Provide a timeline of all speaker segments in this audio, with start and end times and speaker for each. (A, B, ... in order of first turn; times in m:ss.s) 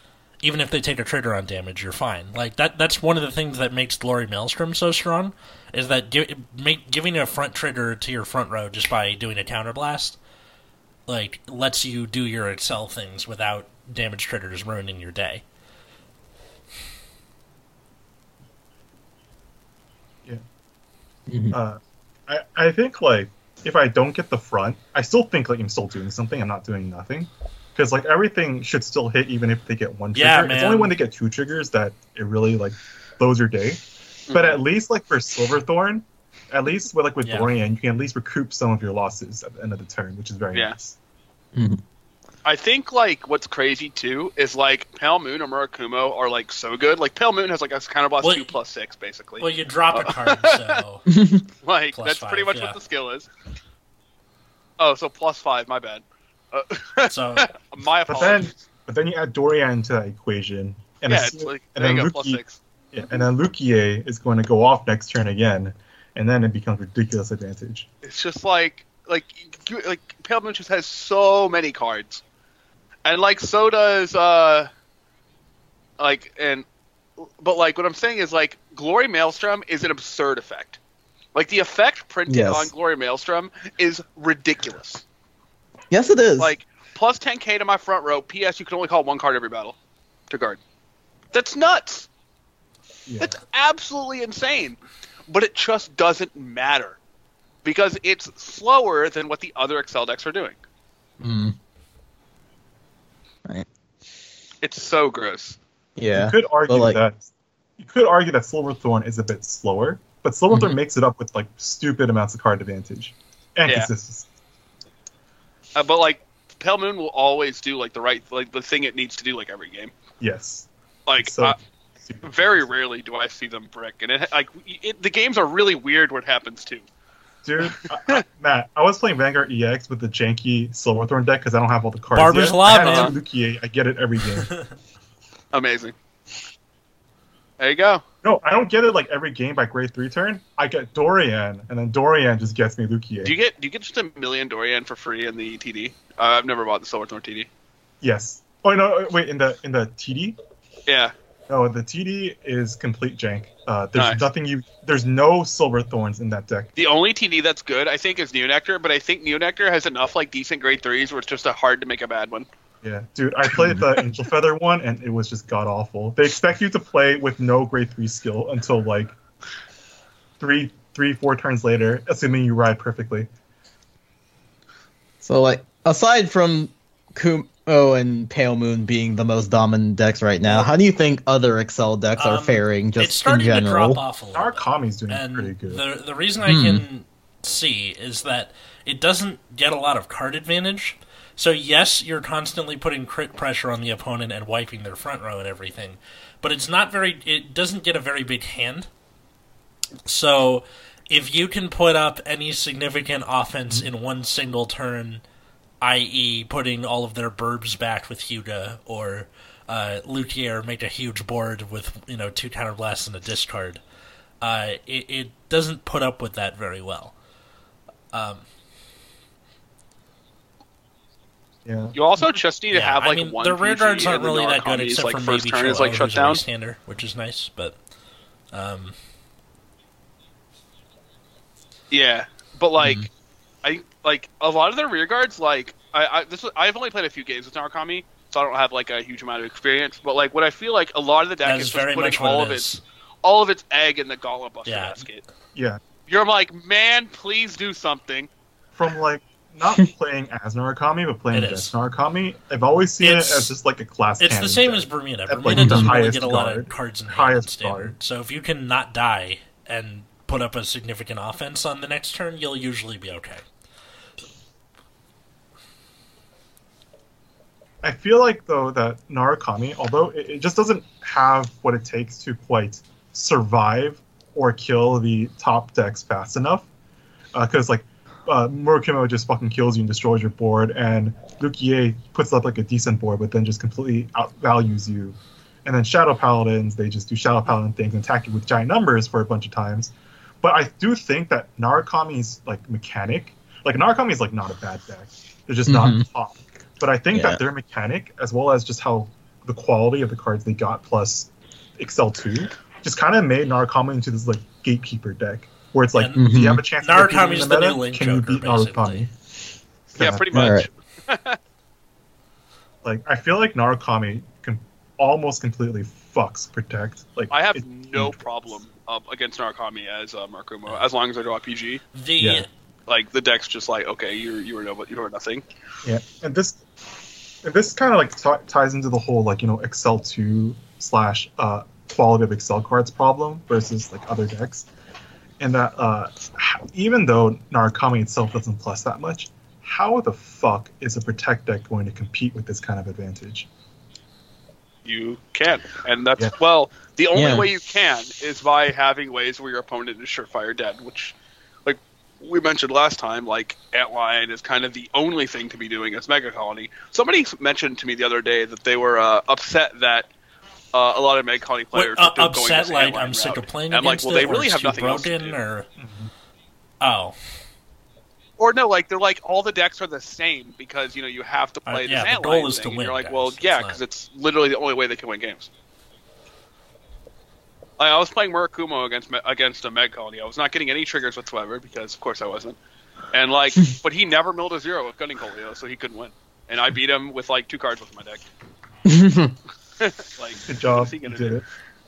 0:00.4-0:10.2 A
0:11.1-0:15.4 A
0:21.3-0:21.6 B
0:21.5-0:41.0 C
0:30.2-0:31.0 A
0:34.3-0:34.6 D
0:37.2-0:37.5 A
0:41.6-0:41.8 B
0:42.4-0:50.8 D
0:48.2-0:48.5 A
0:49.4-0:51.0 A
0:51.1-0:51.5 B
0:51.6-0:53.3 D
0:51.9-0:52.8 A
0:54.8-0:58.6 D
0:57.0-0:57.5 A
0:58.1-1:02.4 C
1:01.1-1:02.6 D
1:02.9-1:07.9 C
1:08.0-1:12.2 D
1:13.0-1:14.7 D
1:16.0-1:16.6 D
1:17.2-1:20.8 D
1:21.4-1:25.0 D
1:22.3-1:22.7 B
1:25.9-1:26.6 B
1:26.4-1:29.8 D
1:30.3-1:30.6 D
1:31.3-1:32.1 D
1:33.1-1:33.4 C
1:33.2-1:37.0 D
1:37.6-1:40.6 D
1:41.2-1:41.6 B
1:44.6-1:45.6 D
1:46.0-1:47.0 B
1:46.1-1:54.3 C
1:50.5-1:50.8 B
1:55.8-1:59.9 D
2:00.2-2:00.7 C
2:01.1-2:01.6 D
2:01.2-2:02.8 C
2:02.2-2:06.8 D
2:07.4-2:14.6 C
2:07.6-2:08.2 D
2:12.1-2:13.2 A
2:12.8-2:13.1 D
2:15.5-2:15.9 D
2:17.6-2:18.0 D
2:18.2-2:23.4 C
2:23.2-2:27.5 D
2:28.0-2:30.4 C
2:30.9-2:31.1 D
2:31.5-2:36.7 C
2:34.0-2:34.2 D
2:36.8-2:42.5 D
2:42.8-2:49.2 C
2:50.4-2:53.3 C
2:55.2-3:04.0 B
3:02.2-3:18.9 A
3:04.3-3:05.8 C
3:06.5-3:06.8 B
3:20.1-3:25.2 A
3:25.8-3:33.8 A
3:34.4-3:37.2 A
3:38.1-3:38.5 A
3:41.7-3:42.4 C
3:42.0-3:46.4 D
3:42.7-3:47.8 A
3:48.5-3:49.0 A
3:51.9-3:53.1 D
3:52.8-3:53.1 B
3:53.6-4:02.7 D
4:01.4-4:02.8 A
4:03.2-4:05.2 D
4:04.7-4:05.0 A
4:05.6-4:05.8 C
4:06.1-4:08.3 D
4:08.8-4:18.0 C
4:11.3-4:11.7 A
4:13.0-4:13.5 A
4:14.2-4:23.4 A
4:15.5-4:15.9 B
4:27.8-4:36.7 C
4:37.3-5:09.1 C
4:55.7-4:56.0 B
4:57.1-4:57.4 B
5:05.9-5:09.1 A
5:06.2-5:06.6 B
5:10.0-5:10.2 C
5:10.0-5:11.4 D
5:10.3-5:10.7 B
5:12.8-5:18.3 C
5:17.3-5:21.8 D
5:21.9-5:22.5 A
5:22.2-5:22.4 C
5:22.9-5:25.4 D
5:25.8-5:26.6 C
5:27.4-5:34.7 C
5:35.4-5:43.5 C
5:44.8-6:00.1 D
5:47.2-5:47.5 B
6:00.7-6:05.4 D
6:01.7-6:05.7 A
6:05.8-6:06.1 C
6:06.8-6:07.2 A
6:08.4-6:15.5 D
6:11.7-6:13.8 A
6:17.8-6:22.6 D
6:23.1-6:28.2 D
6:28.8-6:29.4 B
6:29.8-6:31.4 D
6:30.5-6:31.4 C